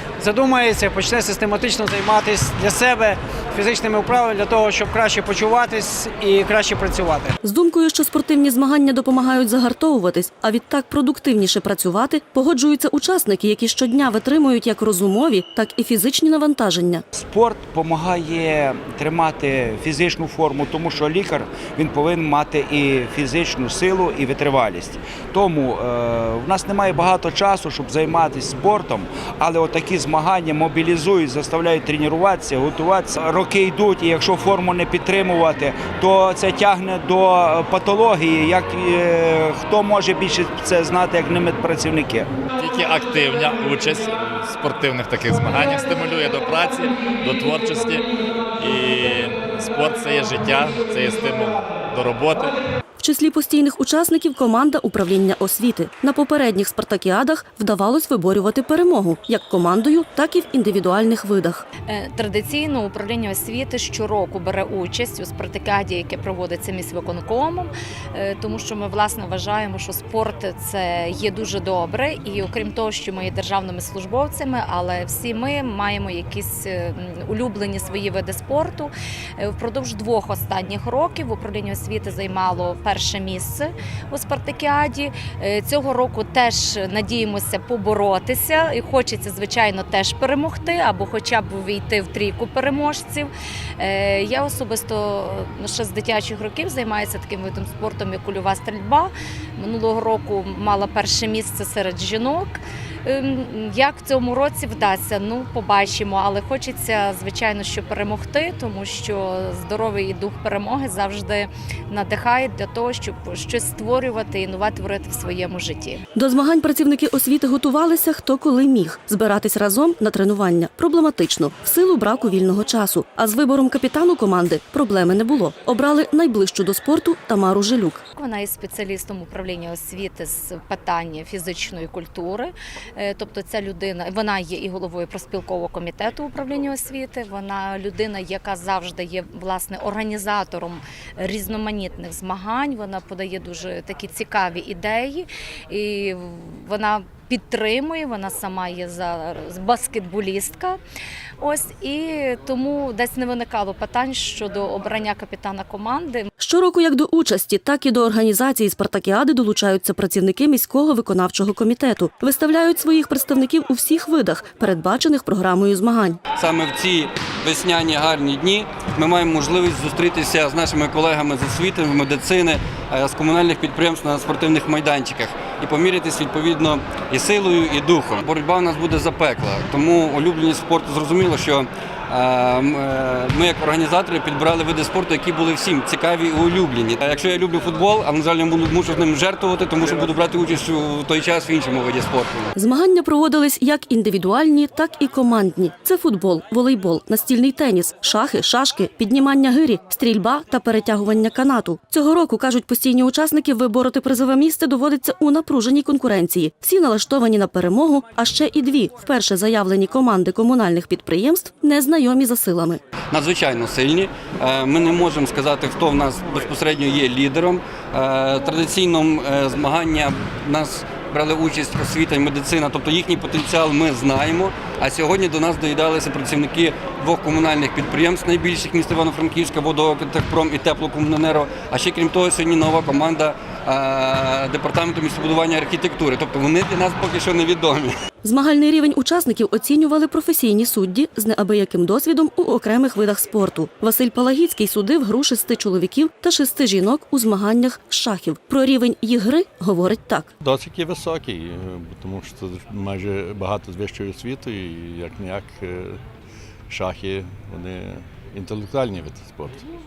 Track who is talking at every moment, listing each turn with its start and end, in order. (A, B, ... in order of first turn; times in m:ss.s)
0:00.2-0:07.3 A
0:07.4-0:17.0 B
0:17.1-0:42.3 C
0:42.6-0:48.0 D
0:48.6-0:52.6 D
0:53.0-1:01.6 B
1:01.9-1:56.0 E
1:56.1-2:08.0 B
2:08.1-2:30.8 E
2:31.4-2:36.3 E
2:36.4-2:46.2 B
2:46.4-3:12.5 F
3:12.6-3:32.8 B
3:33.1-3:57.9 F
3:58.2-4:10.3 B
4:10.4-4:16.0 G
4:16.7-4:19.6 G